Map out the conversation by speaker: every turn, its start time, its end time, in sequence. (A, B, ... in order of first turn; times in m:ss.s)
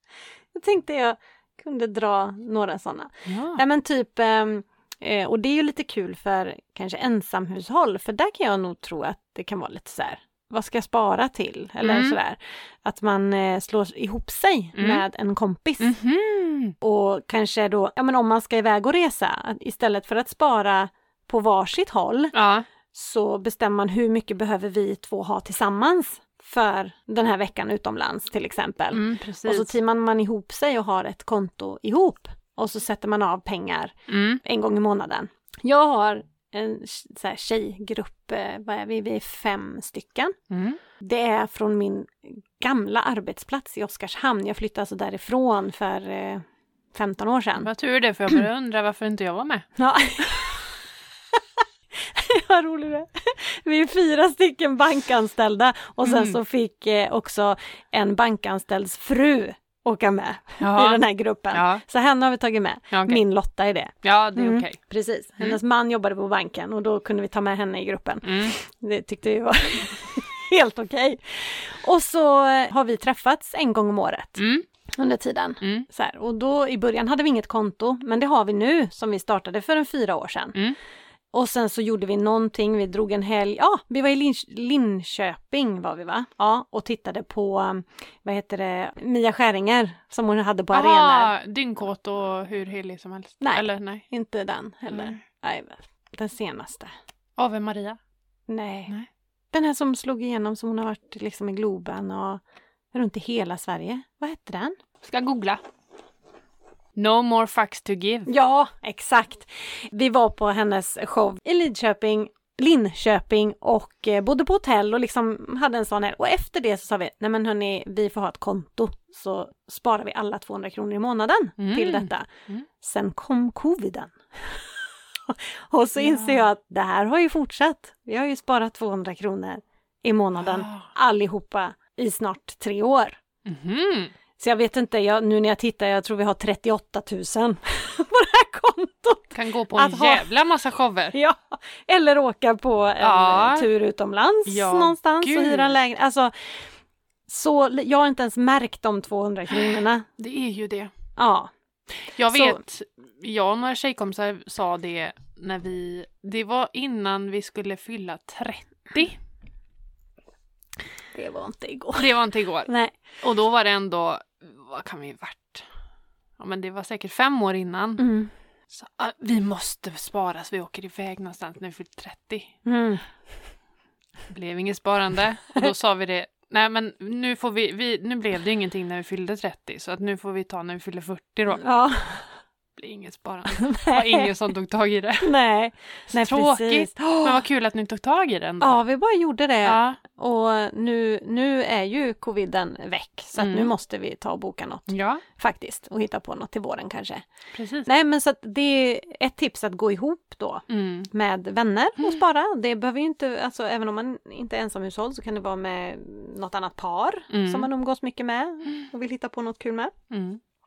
0:00.5-0:16.0 A
0:03.3-0:03.6 B
0:11.8-0:12.2 B
0:14.8-0:15.0 B
0:15.8-0:16.8 B
0:16.8-0:22.3 A
0:22.3-0:22.6 B
0:22.9-0:40.4 A
0:28.9-0:29.7 B
0:34.1-0:34.4 B
0:40.5-0:40.8 B
0:41.0-0:47.7 A
0:47.6-0:49.7 B
0:49.8-0:50.8 A
0:51.9-1:20.6 A
0:56.0-0:56.4 B
1:00.6-1:01.8 B
1:02.9-1:03.2 B
1:04.0-1:04.8 B
1:08.2-1:08.6 B
1:14.4-1:14.7 B
1:21.3-1:31.3 A
1:30.7-1:34.1 B
1:33.4-1:36.9 A
1:34.9-1:35.2 B
1:37.4-1:38.0 B
1:38.5-1:38.9 A
1:39.5-1:42.4 A
1:42.9-1:44.8 A
1:45.0-1:45.6 B
1:47.0-1:48.3 B
1:48.3-2:02.3 A
2:01.6-2:02.6 B
2:02.8-2:13.2 A
2:06.0-2:06.4 B
2:10.4-2:10.9 B
2:13.5-2:14.1 B
2:14.4-2:20.3 A
2:19.3-2:21.2 B
2:21.1-2:26.7 A
2:23.0-2:23.7 B
2:24.5-2:25.8 B
2:27.3-2:30.1 A
2:29.5-2:30.9 B
2:31.2-2:31.5 A
2:32.1-2:39.2 B
2:32.3-2:32.6 A
2:41.1-2:42.1 A
2:42.0-2:45.7 B
2:42.7-2:43.0 A
2:46.4-2:48.0 B
2:48.0-2:48.3 A
2:48.7-2:52.5 B
2:52.6-2:53.0 A
2:54.3-3:01.6 B
3:01.6-3:02.3 A
3:02.8-3:05.3 B
3:03.5-3:04.3 A
3:05.2-3:07.4 A
3:06.1-3:08.8 B
3:08.6-3:17.2 A
3:09.6-3:10.0 B
3:13.4-3:13.7 B
3:14.9-3:15.2 B
3:17.6-3:17.9 B
3:17.9-3:29.9 A
3:20.7-3:21.1 B
3:27.3-3:27.7 B
3:30.1-3:30.4 B